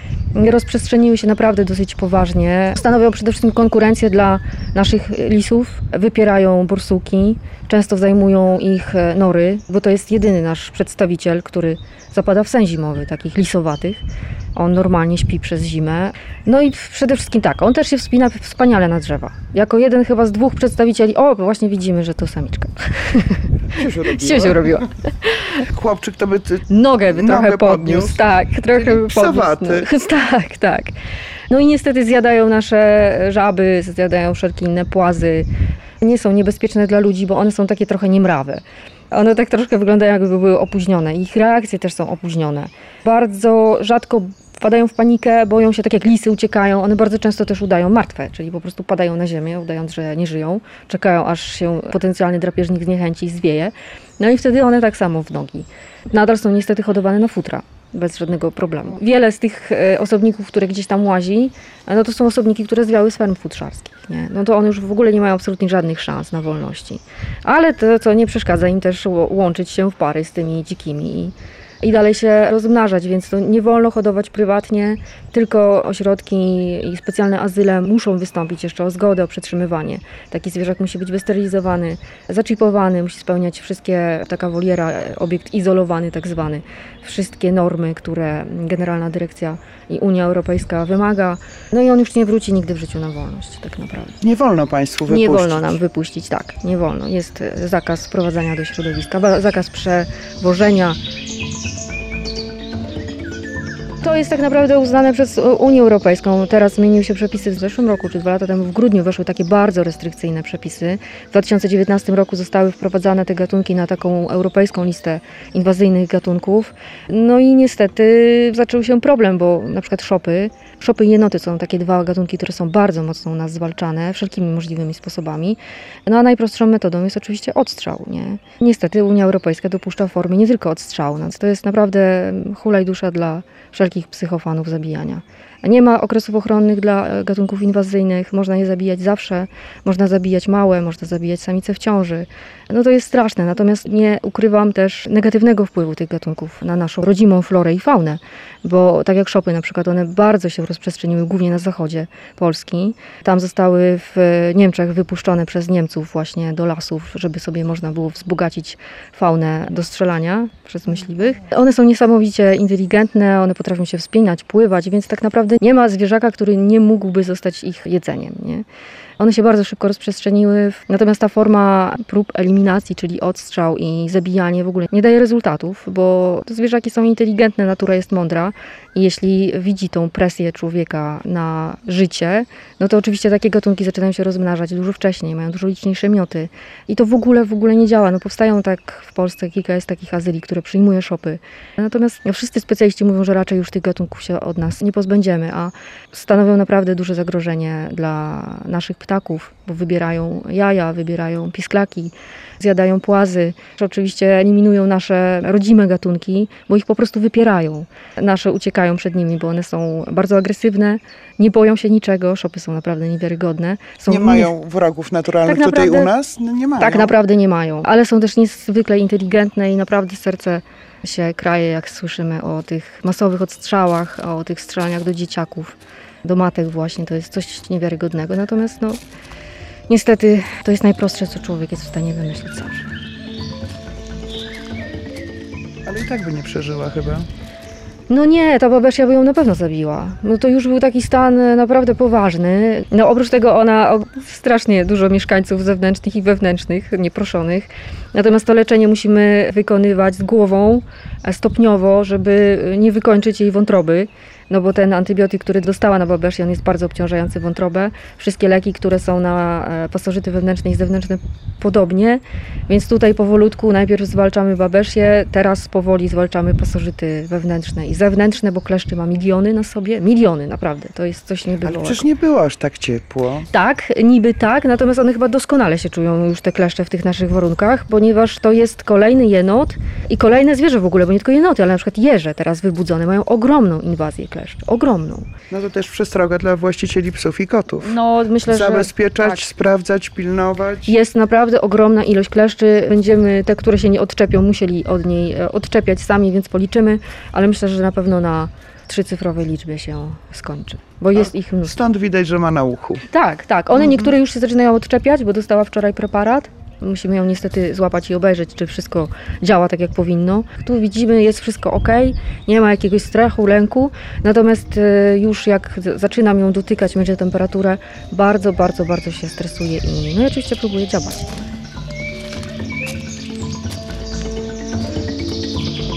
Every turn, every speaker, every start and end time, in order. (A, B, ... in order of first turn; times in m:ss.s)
0:00.3-0:14.0 A
0:14.6-0:25.6 A
0:23.7-0:24.8 B
0:25.7-0:28.2 B
0:26.7-0:30.9 A
0:28.7-0:29.9 B
0:31.5-0:35.5 A
0:36.0-1:34.2 A
1:34.2-1:35.8 B
1:35.1-1:41.0 A
1:44.0-2:48.6 A
2:49.2-3:34.5 A
3:34.1-3:37.1 B
3:35.4-3:36.1 A
3:36.8-3:49.0 A
3:49.9-3:52.9 A
3:55.8-3:57.3 B
3:58.1-4:32.0 A
4:31.6-4:33.5 B
4:33.5-4:45.3 A
4:45.5-4:48.0 B
4:47.8-4:49.4 A
4:48.5-4:51.0 B
4:50.8-5:01.8 A
5:01.1-5:03.0 B
5:03.1-5:21.5 A